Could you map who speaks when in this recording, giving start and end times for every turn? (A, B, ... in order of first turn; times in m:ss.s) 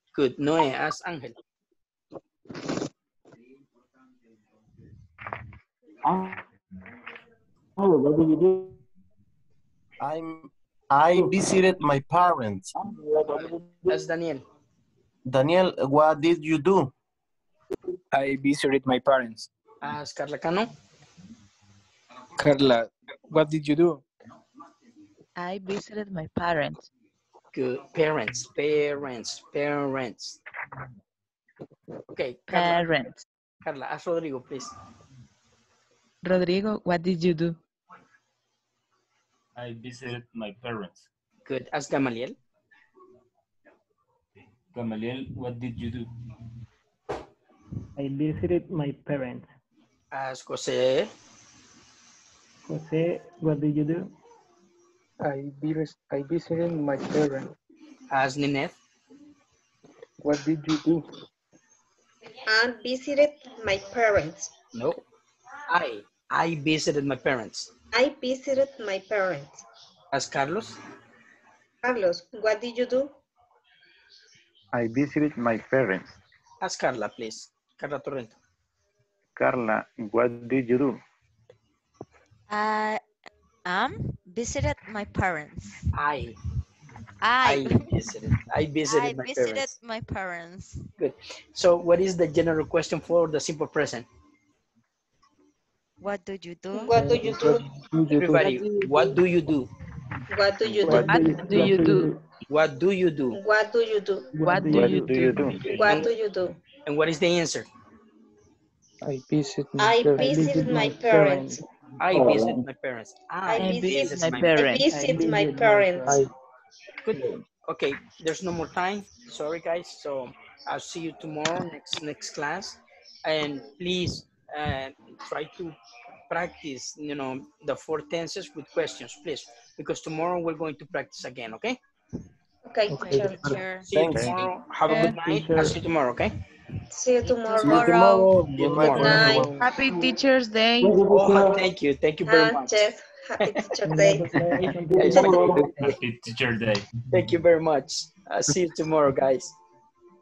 0:00.1-0:01.4 A
0:06.0-0:06.4 B
0:07.8-0:08.8 B
0:10.0-0:12.7 C
0:12.8-0:14.1 B
0:13.4-0:14.4 A
0:15.3-0:16.9 C
0:18.1-0:19.5 D
0:19.8-0:20.7 A
0:22.4-0:24.0 D
0:25.4-0:26.9 E
0:27.5-0:30.4 A
0:32.1-0:33.1 A
0:32.5-0:33.2 E
0:33.6-0:34.7 A
0:36.2-0:37.6 E
0:39.6-0:41.1 F
0:41.5-0:42.4 A
0:44.7-0:46.1 F
0:48.0-0:49.5 G
0:50.1-0:51.1 A
0:52.7-0:54.1 G
0:55.2-0:57.5 H
0:58.1-0:58.8 A
1:00.2-1:01.0 H
1:02.5-1:04.5 I
1:04.7-1:05.0 A
1:05.7-1:07.7 A
1:07.9-1:09.6 I
1:10.1-1:10.8 A
1:11.8-1:13.1 I
1:14.7-1:16.2 J
1:16.6-1:18.4 A
1:19.4-1:21.0 J
1:22.5-1:23.0 K
1:23.6-1:25.8 K
1:25.9-1:26.4 A
1:27.2-1:27.9 K
1:27.4-1:29.7 A
1:28.9-1:30.9 K
1:31.0-1:34.1 A
1:36.0-1:37.0 K
1:36.7-1:37.7 I
1:36.9-1:39.2 H
1:38.2-1:39.7 A
1:40.3-1:41.7 I
1:40.6-1:41.2 A
1:40.8-1:42.2 G
1:40.9-1:42.1 E
1:42.5-1:43.4 A
1:43.3-1:44.9 I
1:44.4-1:45.8 H
1:44.4-1:45.1 E
1:44.4-1:45.9 G
1:44.7-1:45.6 J
1:45.6-1:46.6 I
1:45.8-1:46.1 A
1:46.8-1:47.7 A
1:49.0-1:50.7 H
1:49.8-1:51.6 I
1:50.2-1:51.6 G
1:52.0-1:54.8 A
1:52.1-1:52.6 B
1:53.5-1:56.2 I
1:53.5-1:55.0 E
1:54.8-1:56.3 G
1:57.1-1:57.4 B
1:57.1-2:05.8 A
2:06.3-2:11.8 A
2:12.6-2:13.7 I
2:12.9-2:14.5 K
2:13.8-2:16.3 A
2:13.9-2:14.4 C
2:14.9-2:15.2 E
2:14.9-2:15.8 G
2:16.9-2:18.2 I
2:17.2-2:19.0 K
2:17.6-2:19.5 C
2:18.6-2:19.6 A
2:18.7-2:19.7 I
2:19.6-2:21.1 E
2:20.8-2:21.7 B
2:21.1-2:22.8 A
2:22.2-2:24.5 I
2:23.8-2:25.9 G
2:24.9-2:25.8 B
2:25.0-2:26.0 A
2:25.1-2:25.5 I
2:25.8-2:26.9 F
2:27.1-2:29.5 A